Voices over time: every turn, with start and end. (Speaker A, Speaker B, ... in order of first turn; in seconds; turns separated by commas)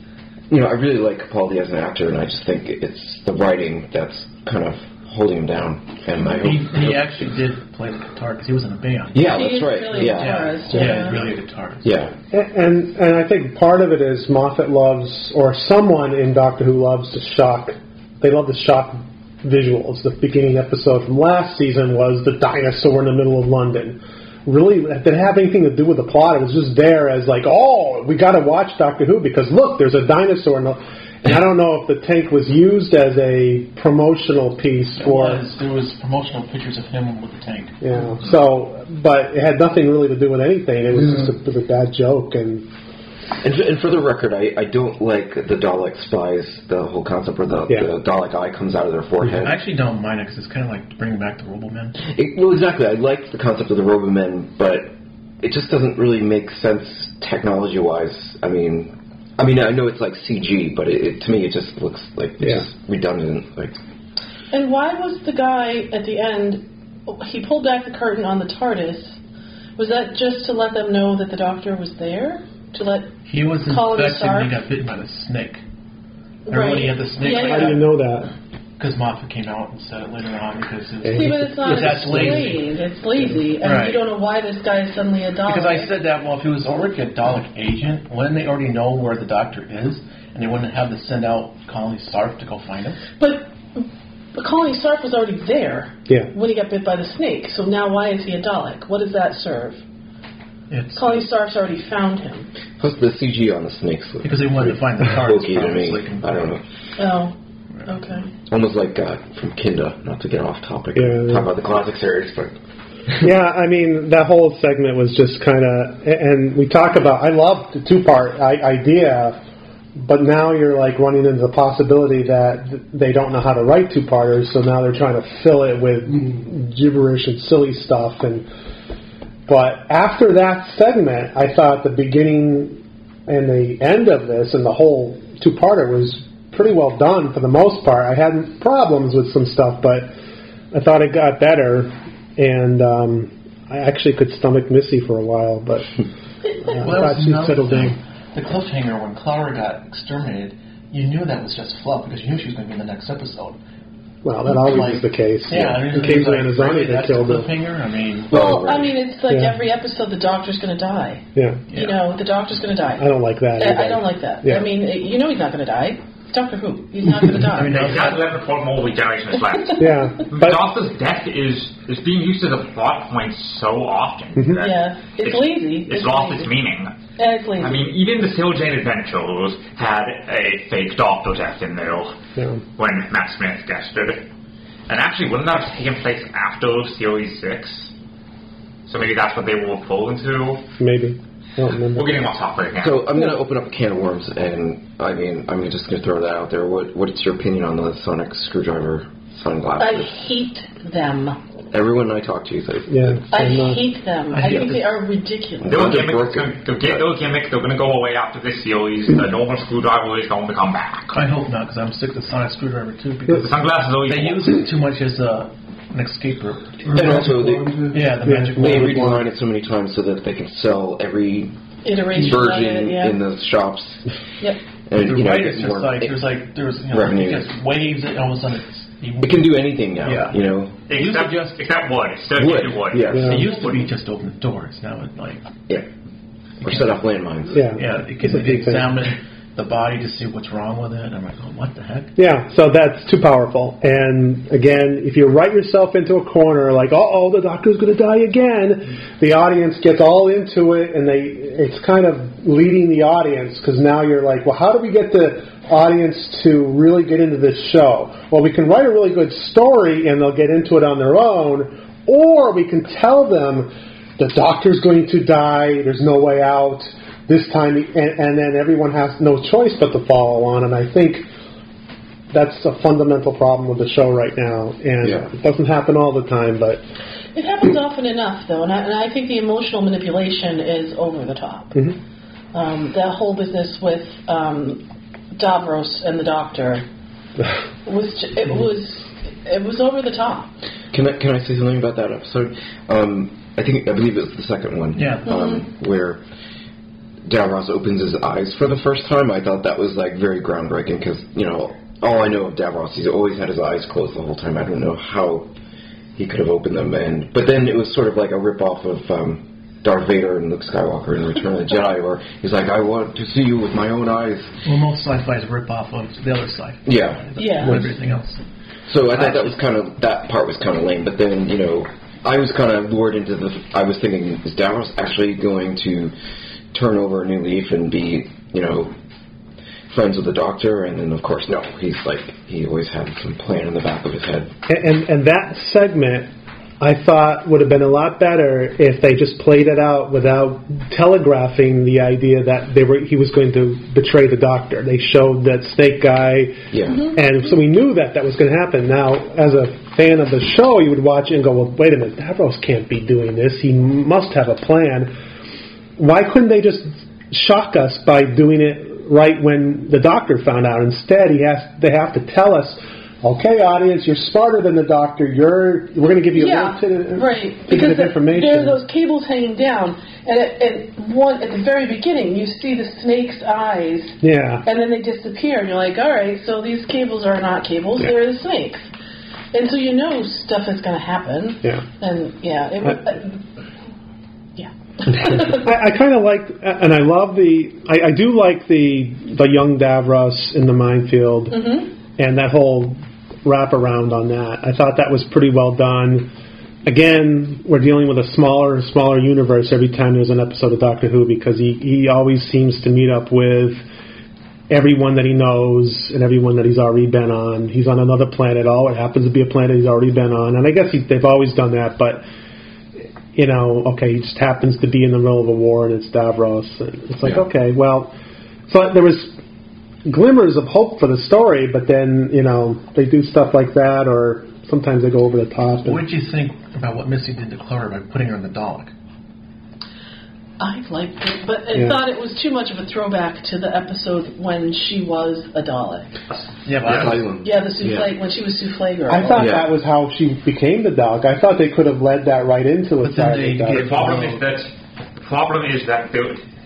Speaker A: 0.5-7.1, Speaker B: 6.3-9.4, Speaker A: 9.1-10.8, Speaker C: 9.3-11.3, Speaker B: 9.9-11.9, Speaker A: 11.8-12.1, Speaker D: 12.3-35.4, Speaker B: 35.0-37.8, Speaker D: 37.8-42.7, Speaker A: 43.4-49.6, Speaker B: 49.4-52.0, Speaker A: 52.0-63.8, Speaker C: 64.5-69.2, Speaker C: 69.8-74.5, Speaker B: 73.2-75.6, Speaker C: 76.5-77.8, Speaker B: 76.5-77.9, Speaker D: 77.4-78.3, Speaker B: 78.8-82.7, Speaker D: 81.0-82.5, Speaker C: 81.1-85.9, Speaker B: 83.5-84.0, Speaker B: 85.5-93.0, Speaker C: 93.2-99.8, Speaker B: 100.7-101.2, Speaker C: 101.0-102.5, Speaker A: 102.8-106.6, Speaker B: 104.2-106.6, Speaker C: 107.0-108.3, Speaker A: 108.5-112.6, Speaker D: 111.0-111.5, Speaker D: 113.2-119.4, Speaker D: 120.0-128.5, Speaker D: 129.5-140.1, Speaker D: 140.7-145.9, Speaker D: 146.6-148.0, Speaker B: 146.7-153.6, Speaker D: 154.2-157.5, Speaker B: 154.5-158.3, Speaker A: 158.3-158.9, Speaker C: 158.3-168.1, Speaker D: 159.3-159.6, Speaker D: 161.3-161.6, Speaker B: 161.7-162.0, Speaker D: 163.0-164.7, Speaker B: 167.5-168.3, Speaker E: 167.7-176.9, Speaker D: 169.8-170.6, Speaker C: 174.6-176.5, Speaker C: 177.2-177.9, Speaker E: 177.6-182.2, Speaker D: 182.4-182.6, Speaker E: 182.8-184.3, Speaker E: 184.9-187.9, Speaker E: 188.9-190.6, Speaker D: 190.8-192.2, Speaker E: 191.9-193.1, Speaker A: 192.8-200.1, Speaker C: 199.8-201.4, Speaker A: 201.7-203.3, Speaker D: 202.9-203.8, Speaker C: 203.3-206.0, Speaker B: 204.3-204.8, Speaker A: 204.5-204.8, Speaker A: 205.6-207.0, Speaker E: 205.6-211.2, Speaker B: 211.1-213.5, Speaker E: 213.4-214.5, Speaker B: 214.1-217.2, Speaker A: 216.9-217.9, Speaker D: 217.0-217.7, Speaker B: 217.9-219.2, Speaker D: 218.2-219.2, Speaker A: 218.6-221.5, Speaker C: 221.8-223.2, Speaker A: 222.1-224.1, Speaker A: 224.9-226.2, Speaker B: 225.0-231.6, Speaker A: 226.9-227.5, Speaker A: 229.2-230.8, Speaker E: 230.9-233.9, Speaker A: 232.4-233.6, Speaker D: 233.1-233.4, Speaker B: 233.2-235.5, Speaker A: 236.6-237.7, Speaker B: 236.7-236.9, Speaker D: 237.5-238.9, Speaker B: 237.7-242.1, Speaker D: 242.2-271.3, Speaker D: 272.3-276.8, Speaker A: 275.0-275.3, Speaker C: 277.3-281.9, Speaker C: 282.5-286.8, Speaker C: 287.9-290.5, Speaker A: 290.9-296.2, Speaker B: 294.9-295.4, Speaker A: 297.3-305.5, Speaker A: 306.2-314.6, Speaker B: 314.6-318.4, Speaker A: 316.9-317.3, Speaker C: 317.4-317.9, Speaker A: 318.9-326.1, Speaker B: 319.1-319.5, Speaker A: 326.7-328.9, Speaker A: 329.9-334.5, Speaker D: 334.7-336.3, Speaker D: 336.8-355.1, Speaker A: 346.7-347.1, Speaker D: 356.0-368.8, Speaker C: 366.4-378.9, Speaker D: 374.2-374.6, Speaker C: 379.5-383.4, Speaker C: 384.6-385.7, Speaker D: 385.2-396.3, Speaker C: 391.5-391.9, Speaker D: 396.8-403.9, Speaker D: 404.7-412.2, Speaker D: 413.3-418.1, Speaker D: 418.7-419.4, Speaker D: 420.1-426.0, Speaker B: 425.8-428.9, Speaker C: 430.6-436.1, Speaker D: 431.7-432.0, Speaker E: 436.3-437.1, Speaker B: 436.6-437.2, Speaker A: 436.9-438.1, Speaker C: 437.4-439.5, Speaker D: 439.1-444.2, Speaker A: 439.3-439.7, Speaker B: 443.0-444.4, Speaker E: 443.7-446.4